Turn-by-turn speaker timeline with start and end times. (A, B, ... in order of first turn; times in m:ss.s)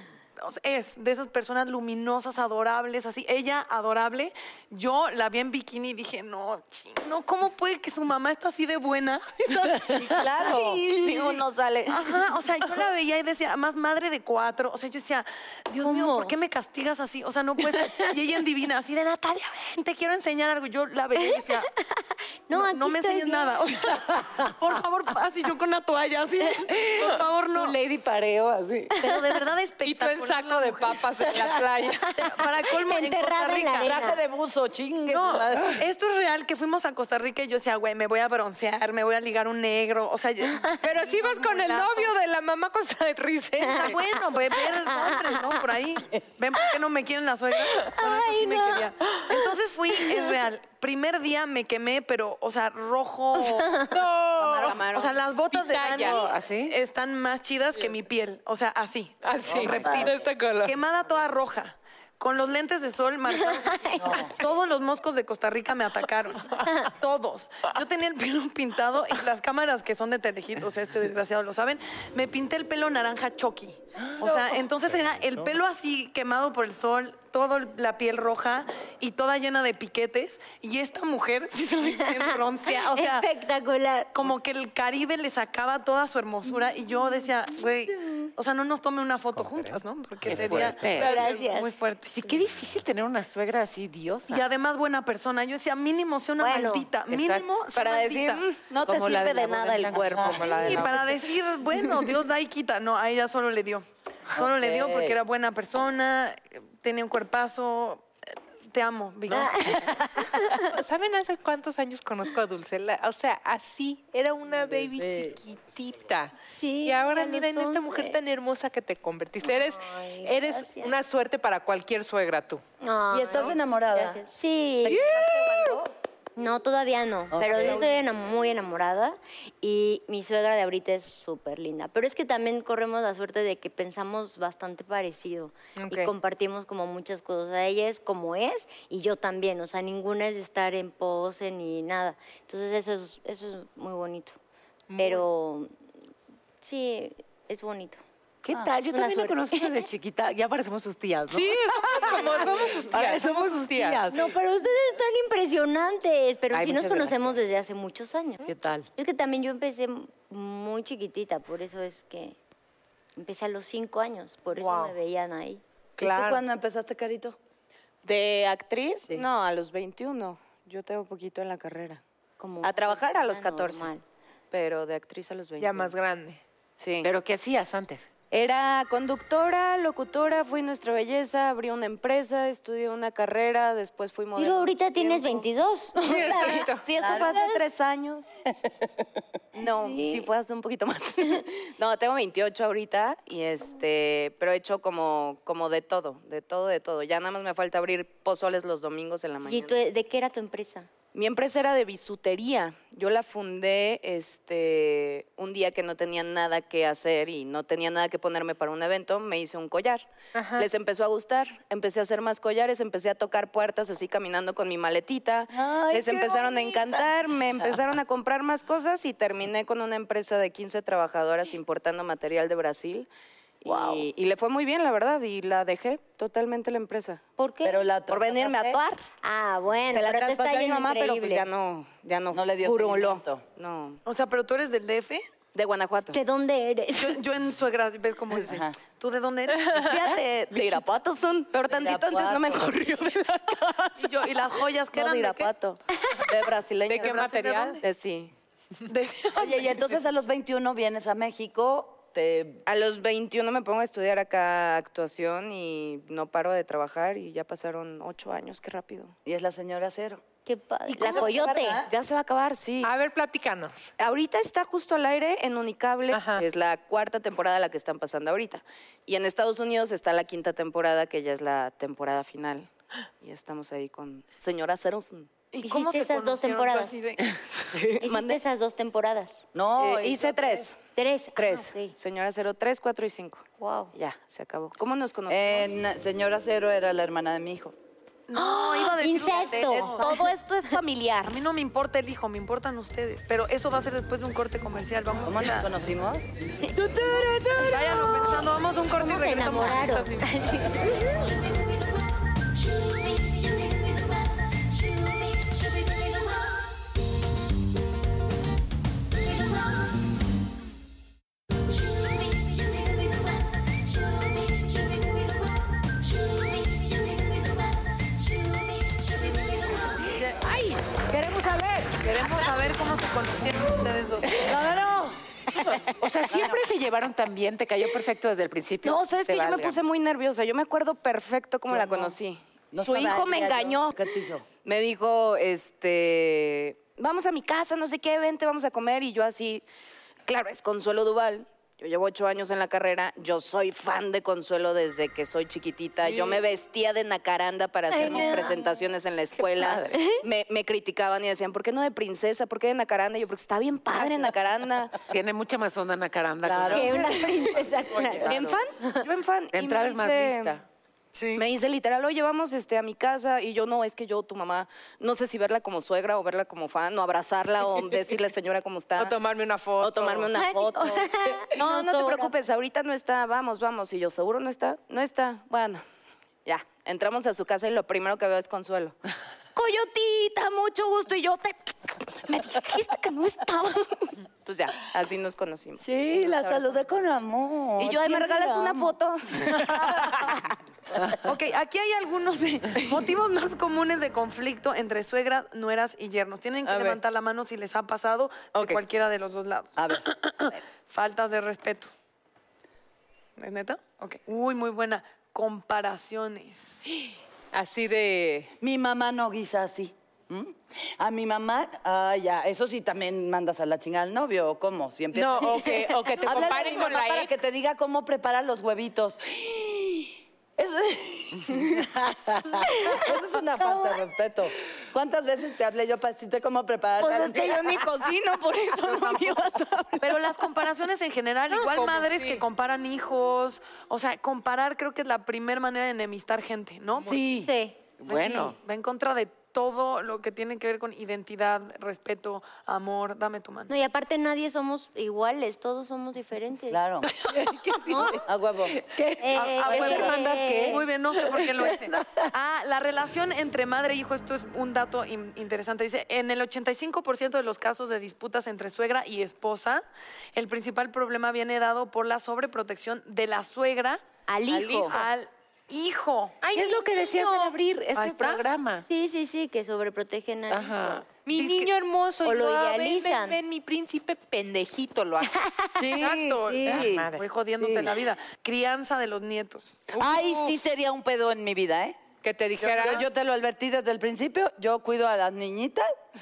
0:00.4-0:11.4 A
0:09.9-0:10.8 B
0:10.4-0:12.0 C
0:11.9-0:21.7 A
0:15.8-0:16.3 D
0:21.2-0:23.6 D
0:22.5-0:27.8 A
0:26.8-0:28.9 E
0:29.0-0:31.4 A
0:29.8-0:32.3 F
0:32.2-0:34.0 A
0:32.6-0:34.2 D
0:33.8-0:35.8 B
0:35.1-0:42.1 A
0:40.8-0:44.0 F
0:43.6-0:44.0 D
0:43.7-0:53.8 A
0:44.6-0:45.6 D
0:47.8-0:48.8 D
0:53.9-0:54.8 F
0:54.4-0:55.2 C
0:54.5-1:23.3 A
0:55.5-0:56.2 F
0:56.0-0:56.7 E
0:59.2-1:00.8 F
0:59.5-1:00.0 B
1:03.4-1:04.3 D
1:04.0-1:04.3 B
1:22.6-1:24.1 D
1:24.1-1:32.2 A
1:30.3-1:31.1 E
1:30.9-1:31.7 D
1:32.1-1:34.5 E
1:34.3-1:38.4 A
1:36.4-1:36.9 D
1:37.1-1:37.5 E
1:37.7-1:40.9 C
1:38.8-1:41.2 E
1:40.4-1:41.1 F
1:40.6-1:48.0 A
1:44.3-1:45.2 B
1:48.7-1:49.9 A
1:49.3-1:50.7 D
1:50.6-2:02.6 F
1:54.6-1:55.4 B
1:56.4-1:58.2 D
1:59.4-2:00.9 D
2:02.8-2:05.0 D
2:03.1-2:04.2 B
2:04.8-2:05.9 B
2:06.4-2:24.4 D
2:07.3-2:07.9 B
2:15.8-2:16.1 F
2:24.9-2:25.2 F
2:25.0-2:25.7 D
2:26.6-2:28.0 D
2:28.4-2:34.3 E
2:28.9-2:29.8 D
2:31.3-2:34.0 F
2:34.1-2:42.4 D
2:36.5-2:37.4 E
2:38.4-2:38.9 E
2:43.2-2:45.6 D
2:44.5-2:45.0 F
2:46.0-2:47.4 B
2:46.0-2:46.4 F
2:48.0-2:52.0 C
2:52.4-2:54.0 D
2:52.6-2:53.9 C
2:54.5-2:55.9 C
2:55.6-2:56.4 F
2:56.8-2:57.1 C
2:57.0-2:58.0 E
2:58.3-3:05.5 C
3:04.4-3:07.6 D
3:06.0-3:06.8 F
3:06.1-3:08.2 C
3:07.0-3:07.3 B
3:09.5-3:19.8 C
3:09.6-3:10.3 D
3:19.4-3:20.9 D
3:21.1-3:30.0 C
3:30.3-3:30.7 F
3:30.6-3:43.1 C
3:35.5-3:37.1 B
3:43.6-3:47.2 C
3:43.7-3:44.0 B
3:47.4-3:47.8 D
3:47.6-3:48.8 B
3:48.1-3:49.0 C
3:49.2-3:51.4 D
3:49.9-3:54.0 C
3:52.3-3:53.4 B
3:54.0-3:55.2 A
3:55.5-3:56.2 C
3:56.1-3:57.2 D
3:57.0-4:00.0 A
3:58.4-3:58.7 B
3:59.7-4:04.3 C
4:01.7-4:02.7 B
4:04.0-4:05.5 A
4:04.9-4:07.2 C
4:06.2-4:07.1 B
4:06.9-4:07.8 F
4:07.0-4:07.8 A
4:07.8-4:08.3 C
4:08.8-4:09.8 A
4:09.3-4:12.6 B
4:12.6-4:19.1 C
4:19.2-4:20.2 B
4:20.4-4:21.8 D
4:20.9-4:22.9 C
4:20.9-4:21.9 B
4:22.8-4:23.9 F
4:24.0-4:35.3 C
4:26.1-4:26.4 F
4:35.5-4:37.7 A
4:35.6-4:37.0 D
4:37.7-4:38.4 C
4:38.0-4:39.4 D
4:39.5-4:40.7 B
4:39.8-4:40.8 C
4:40.9-4:41.9 D
4:41.4-4:45.7 C
4:43.6-4:43.9 D
4:45.3-4:47.7 B
4:48.3-4:50.1 A
4:48.3-4:50.8 D
4:49.7-4:51.4 C
4:51.3-4:55.7 A
4:55.2-4:56.3 B
4:56.6-5:01.0 D
4:57.6-5:00.6 A
5:20.2-5:22.0 E
5:22.0-5:24.6 A
5:24.4-5:25.2 B
5:25.9-5:29.8 E
5:26.3-5:26.6 B
5:28.8-5:34.1 C
5:31.7-5:32.1 B
5:32.7-5:34.4 B
5:34.6-5:39.6 C
5:40.2-5:55.0 C
5:47.9-5:48.7 D
5:49.9-5:50.2 D
5:55.1-5:57.4 E
5:56.4-5:57.1 B
5:56.7-5:59.0 D
5:58.2-6:00.6 C
5:58.3-5:58.5 B
5:59.5-6:00.6 E
6:01.3-6:09.2 C
6:09.0-6:10.4 F
6:09.8-6:15.8 C
6:10.3-6:12.3 D
6:16.4-6:19.0 C
6:19.5-6:26.6 C
6:25.8-6:28.9 B
6:27.8-6:29.7 C
6:29.7-6:30.0 A
6:31.2-6:41.9 A
6:36.6-6:37.0 F
6:38.5-6:38.8 F
6:39.8-6:40.0 B
6:43.4-6:46.6 A
6:47.5-6:48.5 F
6:48.6-7:08.0 B
6:55.1-6:57.3 F
7:02.7-7:04.0 D
7:07.0-7:10.2 C
7:08.8-7:09.3 B
7:10.0-7:17.2 A
7:11.5-7:12.4 F
7:17.0-7:17.5 B
7:17.4-7:17.8 D
7:18.0-7:18.6 E
7:18.1-7:23.7 A
7:23.7-7:26.8 D
7:26.7-7:27.1 B
7:27.3-7:32.3 E
7:27.9-7:28.2 D
7:28.2-7:28.8 B
7:29.2-7:30.8 D
7:29.3-7:39.8 A
7:29.8-7:30.1 B
7:40.3-7:44.0 A
7:44.3-7:44.9 D
7:44.5-7:46.4 A
7:46.4-7:47.5 F
7:46.5-7:48.8 E
7:48.0-7:48.4 A
7:48.9-7:51.0 D
7:50.5-7:51.0 E
7:51.2-7:55.4 F
7:51.3-7:51.7 A
7:52.2-7:53.4 D
7:55.4-7:55.7 D
7:55.8-7:57.9 B
7:55.9-7:59.8 A
7:56.6-7:57.2 E
7:59.9-8:00.5 F
8:00.0-8:02.0 B
8:02.2-8:03.0 F
8:02.6-8:05.9 B